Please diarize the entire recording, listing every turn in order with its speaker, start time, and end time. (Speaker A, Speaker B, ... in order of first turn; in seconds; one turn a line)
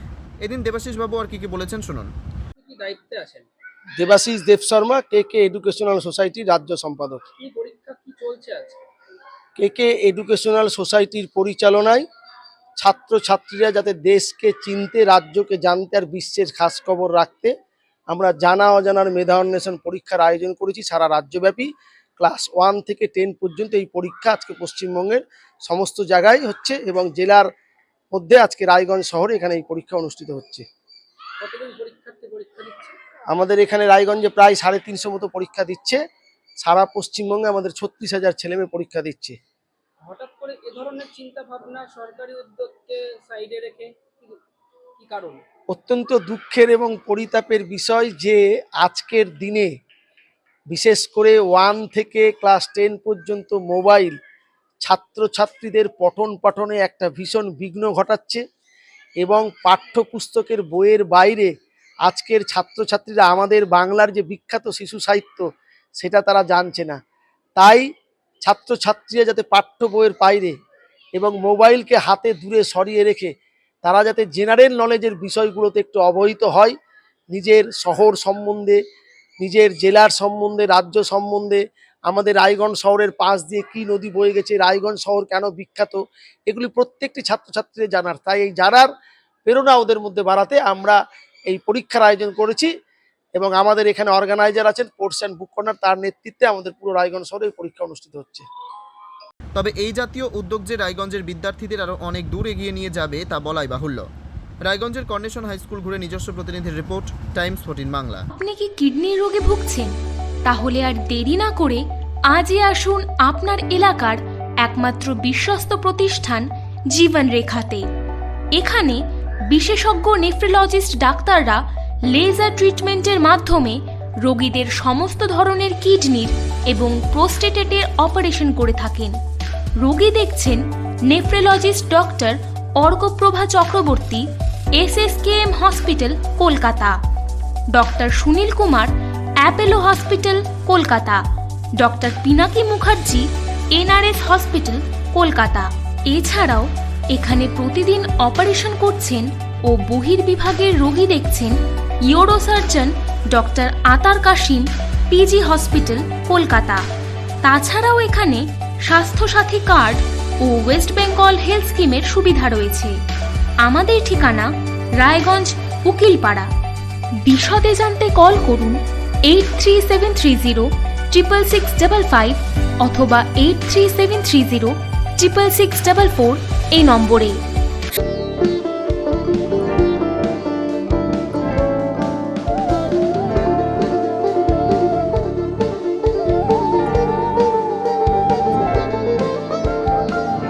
Speaker A: 0.4-2.1
Speaker B: 2.6-3.5
Speaker C: 4.0-7.2
Speaker B: 7.4-8.8
Speaker C: 9.6-12.0
Speaker C: 12.8-17.5
Speaker C: 18.1-27.5
Speaker C: 28.1-30.6
Speaker B: 31.4-33.0
Speaker C: 33.3-36.0
Speaker C: 36.6-39.4
Speaker B: 40.0-44.4
Speaker B: 45.0-45.4
Speaker C: 45.7-49.7
Speaker C: 50.7-54.2
Speaker C: 54.8-58.4
Speaker C: 59.2-61.5
Speaker C: 62.0-67.0
Speaker C: 67.6-67.9
Speaker C: 68.5-70.5
Speaker C: 71.2-73.3
Speaker C: 73.8-76.8
Speaker C: 77.3-78.8
Speaker C: 79.4-88.9
Speaker C: 89.5-91.0
Speaker C: 91.5-92.7
Speaker C: 93.3-98.5
Speaker A: 99.5-104.0
Speaker A: 104.7-108.2
Speaker D: 108.3-109.9
Speaker D: 110.5-117.9
Speaker D: 118.5-129.2
Speaker D: 129.8-137.0
Speaker D: 137.7-138.9
Speaker D: 139.4-141.2
Speaker D: 141.8-156.8
Speaker D: 157.4-163.0
Speaker D: 163.6-166.5
Speaker D: 167.2-177.4